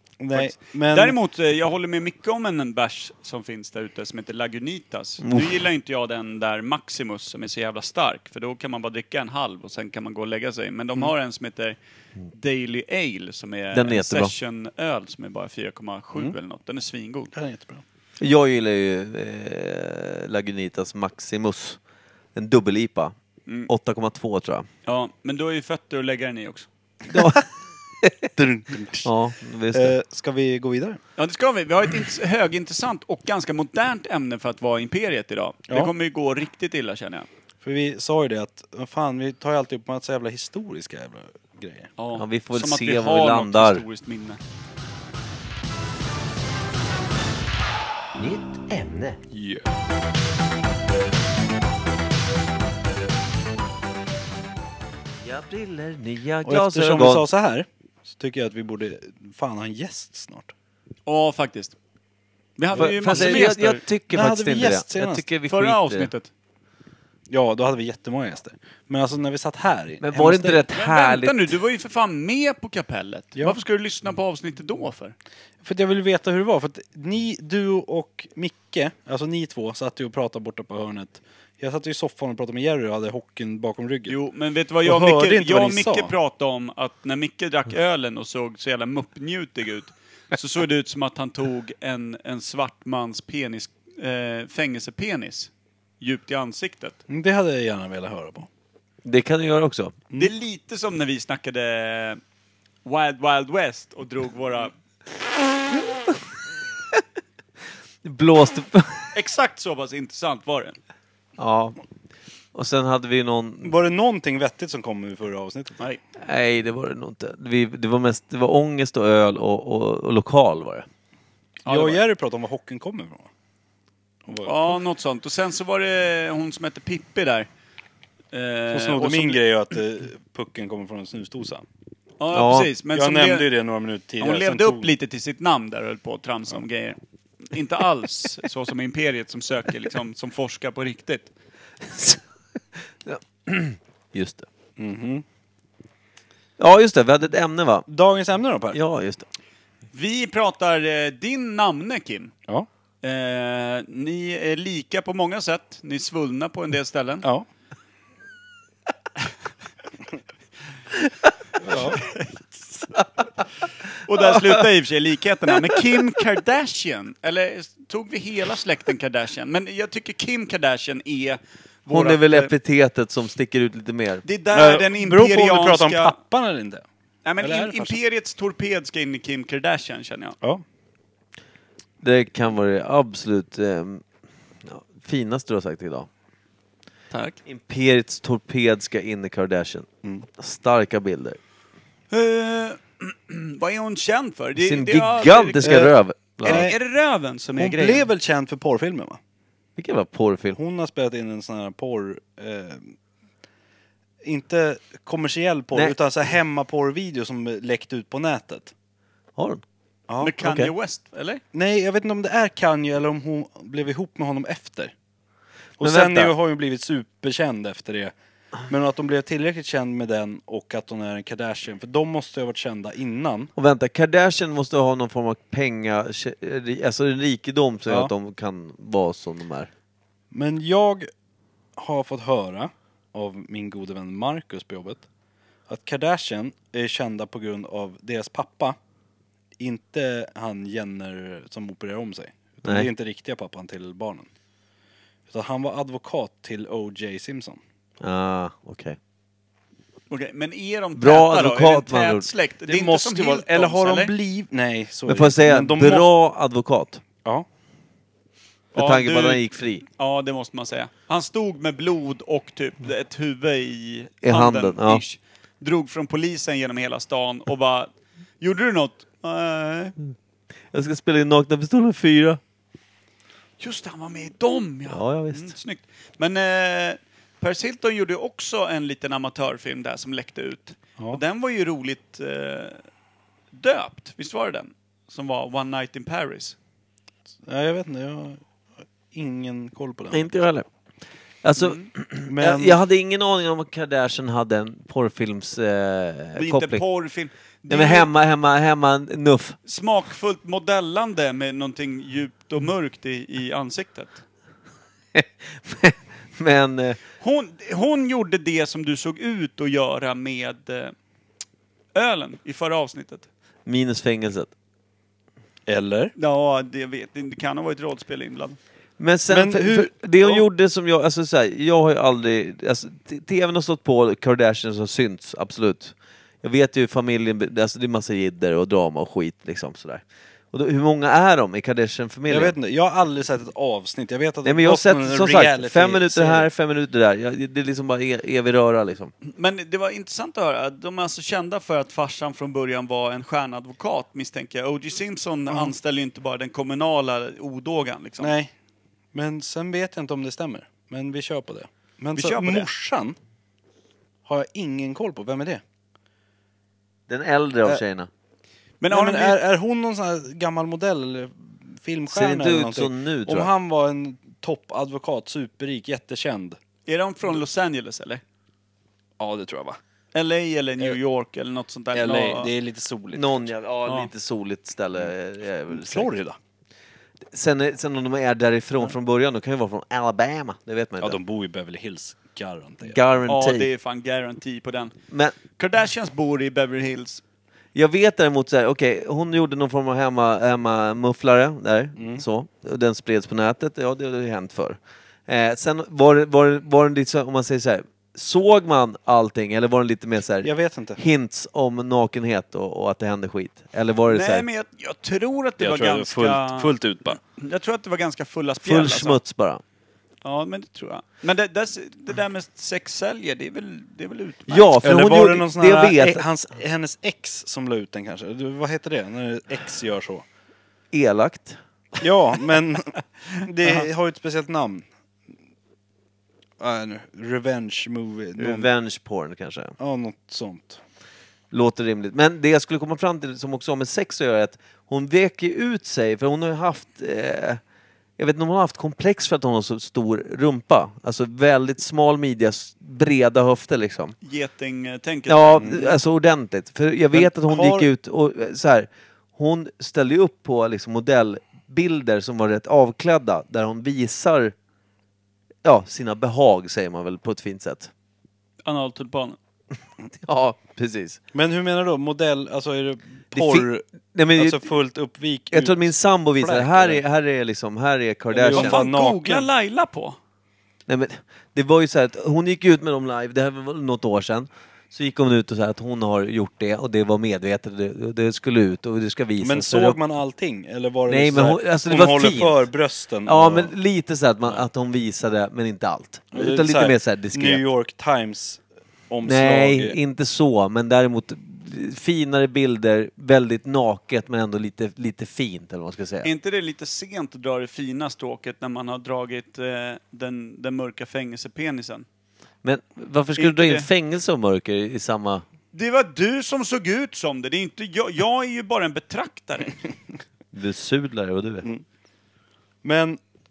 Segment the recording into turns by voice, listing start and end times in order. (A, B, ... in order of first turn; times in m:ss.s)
0:00.2-0:01.2 A
0:00.3-0:11.8 B
0:05.2-0:05.5 C
0:12.3-0:17.3 B
0:13.7-0:14.3 C
0:17.3-0:17.8 A
0:18.2-0:21.8 C
0:22.4-0:23.2 C
0:23.7-0:24.7 C
0:24.9-0:26.7 B
0:27.1-0:27.4 C
0:28.0-0:28.3 C
0:28.4-0:29.1 A
0:29.0-0:30.0 C
0:29.7-0:31.0 A
0:31.2-0:37.3 B
0:37.6-0:41.9 A
0:42.0-0:44.4 B
0:42.2-0:43.8 C
0:48.2-0:49.2 C
0:49.3-0:49.7 A
0:55.2-0:57.3 C
0:56.4-1:00.5 A
1:01.1-1:01.8 B
1:02.6-1:03.8 B
1:02.7-1:06.1 C
1:02.8-1:03.6 A
1:04.1-1:05.2 A
1:05.5-1:06.3 B
1:07.3-1:10.6 A
1:10.0-1:11.5 C
1:10.7-1:15.2 B
1:15.6-1:24.2 A
1:24.1-1:37.0 B
1:24.8-1:26.1 A
1:37.1-1:38.5 A
1:39.0-1:40.0 C
1:40.2-1:42.2 B
1:42.8-1:44.7 B
1:48.0-1:49.1 C
1:49.1-1:50.8 B
1:51.4-1:51.8 C
1:52.5-1:53.8 C
1:53.6-1:55.8 A
1:56.2-2:00.9 C
2:01.6-2:02.0 B
2:01.7-2:03.3 A
2:04.3-2:04.8 A
2:04.4-2:07.5 B
2:08.3-2:09.4 B
2:08.7-2:11.6 A
2:12.2-2:13.5 B
2:12.3-2:12.7 C
2:12.9-2:14.9 A
2:14.2-2:21.3 B
2:21.8-2:22.2 C
2:22.8-2:24.5 C
2:24.8-2:25.2 A
2:26.6-2:27.9 C
2:27.9-2:28.8 A
2:28.7-2:29.3 C
2:29.9-2:32.3 B
2:33.0-2:37.3 B
2:41.6-2:42.0 A
2:42.0-2:42.9 B
2:44.0-2:52.5 B
2:44.1-2:44.6 C
2:51.9-2:54.2 C
2:54.2-2:56.2 B
2:54.5-2:56.8 A
2:57.2-3:00.4 B
2:57.4-2:58.0 A
3:02.0-3:04.0 C
3:04.6-3:06.1 C
3:07.1-3:07.4 B
3:07.4-3:11.4 C
3:12.1-3:15.8 B
3:14.6-3:16.7 C
3:15.6-3:16.8 A
3:16.4-3:18.1 B
3:17.6-3:19.2 A
3:19.8-3:20.6 C
3:20.6-3:23.0 A
3:24.2-3:28.7 A
3:29.4-3:29.6 C
3:30.1-3:30.3 A
3:30.2-3:31.4 B
3:30.4-3:30.7 C
3:31.5-3:34.9 A
3:35.8-3:38.1 A
3:35.8-3:36.3 C
3:38.7-3:43.5 A
3:43.6-3:49.7 C
3:50.3-3:51.1 A
3:51.8-3:55.0 A
3:55.7-3:58.8 A
3:59.6-4:04.3 A
4:02.6-4:02.9 C
4:05.3-4:07.6 A
4:08.0-4:09.0 C
4:10.1-4:14.1 B
4:11.0-4:12.3 C
4:12.7-4:16.1 A
4:15.1-4:17.0 C
4:18.7-4:29.9 B
4:18.8-4:19.8 C
4:24.2-4:25.0 C
4:30.7-4:32.4 C
4:33.6-4:42.8 B
4:34.9-4:35.5 C
4:43.5-4:46.6 B
4:47.5-4:48.4 A
4:49.1-4:50.3 A
4:50.1-4:50.7 C
4:51.4-4:56.8 C
4:51.6-4:51.9 B
4:52.3-4:52.8 A
4:56.4-4:58.1 B
4:57.7-4:59.6 C
4:59.6-5:04.2 B
5:05.1-5:07.0 C
5:07.2-5:10.9 B
5:12.0-5:13.3 B
5:13.7-5:14.5 C
5:15.7-5:16.1 A
5:16.2-5:18.6 B
5:19.0-5:32.6 C
5:19.3-5:20.4 A
5:32.3-5:36.5 A
5:34.4-5:39.1 C
5:39.2-5:48.3 B
5:48.2-5:48.5 A
5:49.1-5:53.2 A
5:52.2-5:52.7 B
5:54.3-5:55.6 A
5:57.1-5:58.1 C
5:58.8-5:59.4 B
5:58.9-6:06.6 A
6:02.1-6:03.5 C
6:06.9-6:08.2 B
6:09.2-6:09.8 A
6:10.1-6:12.5 B
6:11.9-6:13.5 A
6:13.1-6:16.1 C
6:15.7-6:16.4 A
6:17.3-6:21.2 C
6:21.0-6:23.0 A
6:22.9-6:23.7 C
6:23.3-6:25.0 B
6:25.1-6:25.4 C
6:25.6-6:27.2 B
6:27.8-6:44.5 C
6:32.0-6:32.2 A
6:40.4-6:41.0 A
6:44.1-6:49.2 B
6:45.6-6:47.2 A
6:48.6-6:49.6 C
6:50.2-6:54.7 B
6:54.5-6:56.2 C
6:54.8-7:00.2 A
7:00.9-7:01.6 C
7:02.0-7:02.9 A
7:03.4-7:04.9 A
7:06.6-7:08.7 A
7:08.4-7:09.8 C
7:09.8-7:10.8 A
7:11.5-7:17.6 C
7:18.2-7:24.2 C
7:24.2-7:25.8 B
7:25.3-7:34.6 C
7:25.6-7:25.9 A
7:27.1-7:27.9 A
7:35.6-7:37.9 C
7:38.6-7:39.4 B
7:40.1-7:41.2 C
7:41.3-7:47.0 A
7:43.3-7:44.7 C
7:45.5-7:48.8 C
7:48.3-7:49.5 A
7:48.5-7:50.2 B
7:50.9-8:00.0 C
7:59.4-8:03.7 A
8:01.1-8:02.7 C
8:03.2-8:07.6 C
8:06.3-8:10.0 A
8:09.2-8:16.3 C
8:16.2-8:22.1 B
8:22.6-8:25.4 C
8:23.4-8:23.9 B
8:25.7-8:29.8 B
8:30.5-8:31.7 C
8:32.8-8:33.2 A